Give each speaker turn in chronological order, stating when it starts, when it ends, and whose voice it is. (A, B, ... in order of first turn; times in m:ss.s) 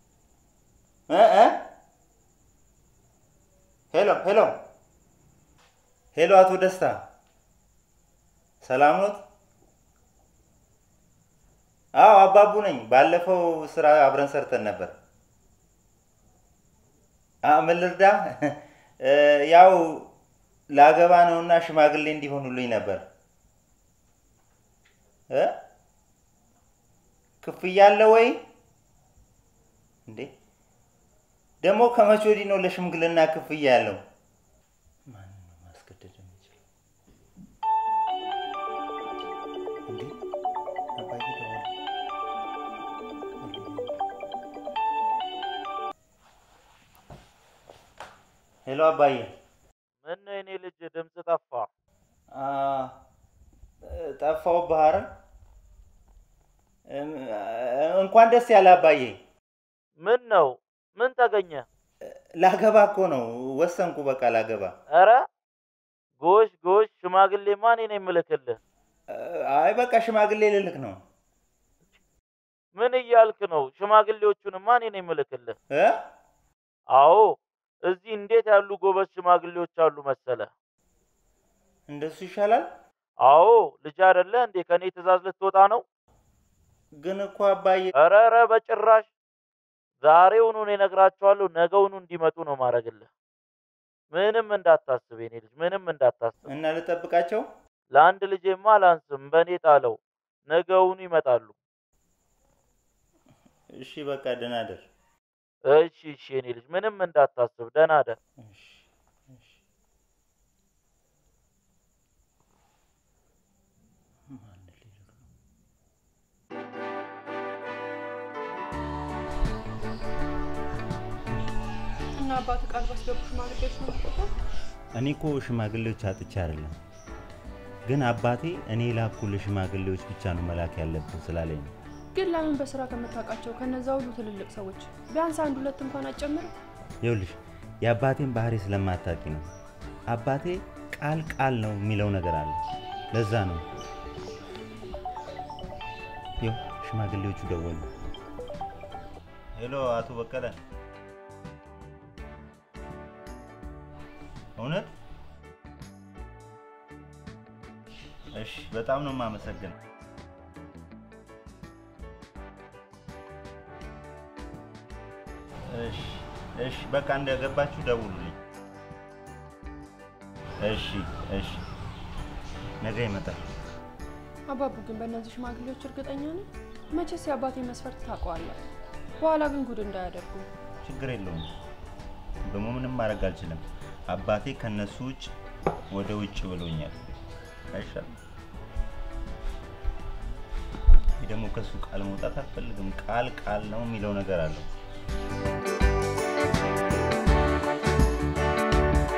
0:01.1-0:01.6 A
0:03.9-0:04.5 A
0:06.1-0:07.0 A
0:08.6-0:09.2 A
0:11.9-0:14.9 A
0:17.4-0:20.1 A
0:20.7-0:23.0 A
0:25.3-0:25.6 A
0:27.4-0:28.4 A
0:31.6-0:34.0 A
0:35.1-0:36.6 A
0:39.9-0:40.1 A
0:41.0-0:41.7 A
0:43.4-0:43.9 A
0:48.7-0:49.3 A
0:50.0-0:51.7 B
0:52.3-0:52.9 A
0:53.8-0:55.1 A
0:56.9-0:59.2 A
1:00.0-1:01.6 B
1:02.0-1:04.8 A
1:04.9-1:05.3 B
1:06.2-1:08.6 B
1:09.1-1:11.0 A
1:12.8-1:15.6 B
1:15.7-1:16.0 A
1:16.9-1:20.5 B
1:21.9-1:22.7 A
1:23.2-1:25.8 B
1:27.0-1:27.9 A
1:28.0-1:29.1 B
1:30.0-1:33.1 B
1:34.1-1:36.4 B
1:36.4-1:37.4 A
1:37.9-1:41.5 B
1:43.7-1:44.8 A
1:45.6-1:48.2 B
1:48.4-1:48.8 A
1:54.3-1:55.2 A
2:02.2-2:04.3 C
2:04.9-2:06.8 A
2:07.9-2:11.7 A
2:12.1-2:16.5 C
2:17.0-2:19.5 A
2:20.1-2:22.6 A
2:23.1-2:23.6 A
2:26.4-2:27.8 A
2:29.6-2:30.6 A
2:34.6-2:34.9 A
2:38.3-2:39.8 A
2:45.6-2:48.4 A
2:50.6-2:51.6 A
2:52.8-2:53.4 A
2:54.5-2:58.6 C
2:59.2-3:00.5 C
3:00.8-3:01.5 A
3:02.4-3:05.3 A
3:05.9-3:07.0 A
3:07.7-3:08.1 A
3:11.2-3:14.6 A